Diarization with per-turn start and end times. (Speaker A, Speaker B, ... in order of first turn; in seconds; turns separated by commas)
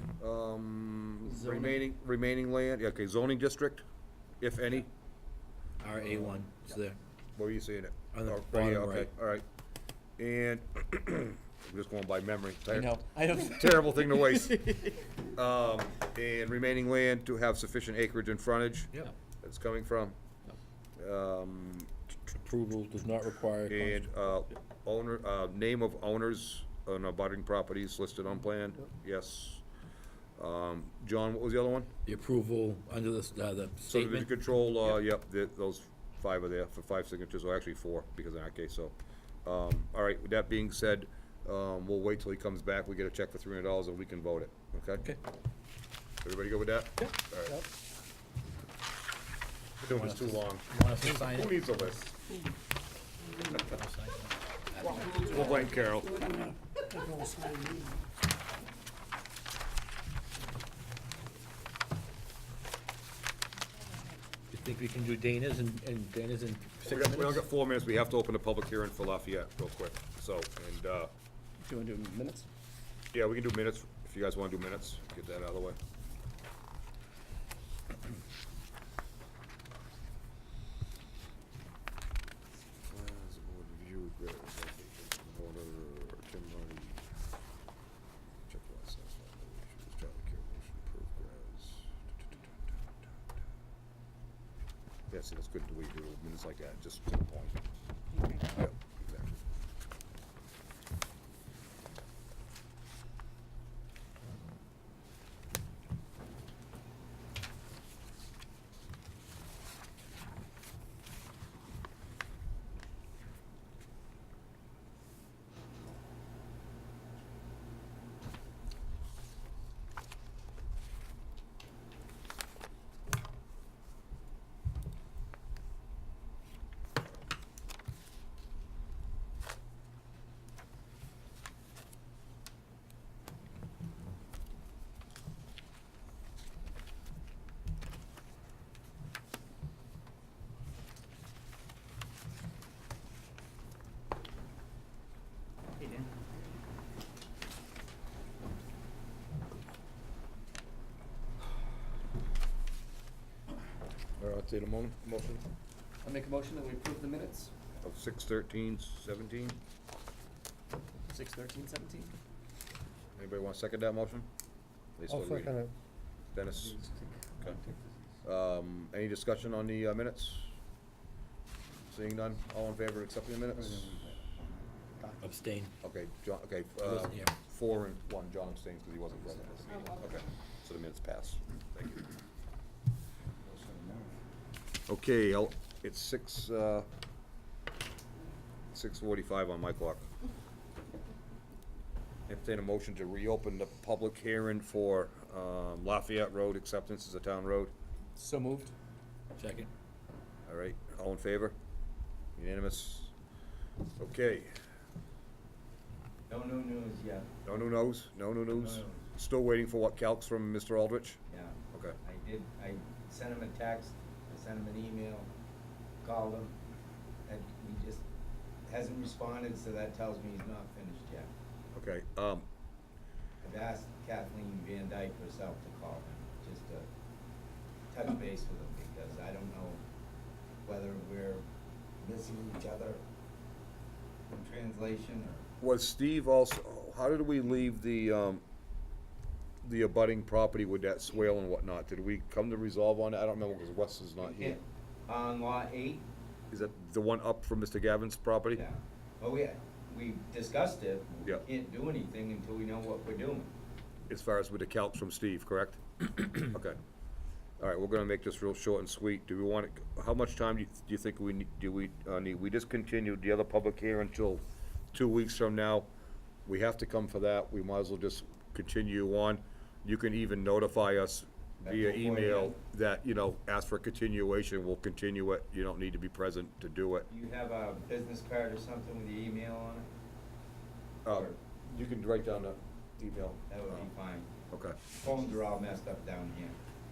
Speaker A: 0.2-3.8, Speaker B: 1.2-1.8, Speaker A: 4.4-4.9, Speaker C: 5.8-7.0, Speaker A: 7.3-9.4, Speaker C: 8.1-9.1, Speaker A: 10.2-20.1, Speaker B: 12.7-14.9, Speaker A: 21.0-21.9, Speaker C: 22.3-24.0, Speaker A: 23.7-29.6, Speaker A: 30.4-31.9, Speaker C: 32.0-34.3, Speaker A: 33.9-38.9, Speaker A: 39.4-45.0, Speaker A: 46.2-47.6, Speaker A: 49.8-52.1, Speaker C: 49.9-51.8, Speaker C: 53.5-55.6, Speaker A: 55.0-56.3, Speaker B: 56.2-57.8, Speaker C: 64.5-67.4, Speaker A: 66.9-71.1, Speaker B: 71.6-72.5, Speaker A: 73.1-75.8, Speaker A: 82.9-87.0, Speaker A: 88.5-92.8, Speaker A: 95.1-97.6, Speaker A: 98.3-99.4, Speaker A: 154.2-155.4, Speaker B: 156.0-157.5, Speaker A: 157.8-159.6, Speaker B: 161.1-162.1, Speaker A: 163.2-164.3, Speaker A: 165.0-165.7, Speaker A: 166.3-166.8, Speaker A: 168.2-170.5, Speaker A: 171.9-174.1, Speaker C: 175.2-175.7, Speaker A: 175.8-182.1, Speaker C: 176.8-177.3, Speaker B: 183.5-184.1, Speaker A: 184.9-186.9, Speaker A: 188.7-190.1, Speaker A: 192.3-197.7, Speaker B: 198.2-198.7, Speaker C: 199.4-199.7, Speaker A: 200.4-201.6, Speaker A: 202.4-203.1, Speaker A: 204.0-204.5, Speaker D: 206.3-207.3, Speaker A: 207.4-211.2, Speaker D: 208.5-209.0, Speaker D: 211.3-215.3, Speaker A: 211.7-212.0, Speaker D: 216.0-216.6, Speaker D: 217.2-218.0, Speaker D: 218.7-221.3, Speaker A: 221.7-222.5, Speaker D: 223.4-226.8, Speaker D: 227.9-229.8, Speaker D: 230.6-231.4, Speaker D: 232.0-233.0, Speaker D: 234.3-235.4, Speaker A: 235.6-238.4, Speaker A: 239.6-244.6, Speaker D: 244.2-246.0, Speaker A: 246.5-248.6, Speaker D: 248.5-253.5, Speaker A: 254.1-256.8, Speaker A: 257.6-265.9, Speaker A: 266.4-277.1, Speaker D: 271.6-272.6, Speaker D: 277.1-279.9, Speaker A: 281.0-283.9, Speaker D: 281.1-281.4, Speaker D: 283.5-284.3, Speaker A: 284.5-284.8, Speaker D: 284.9-286.6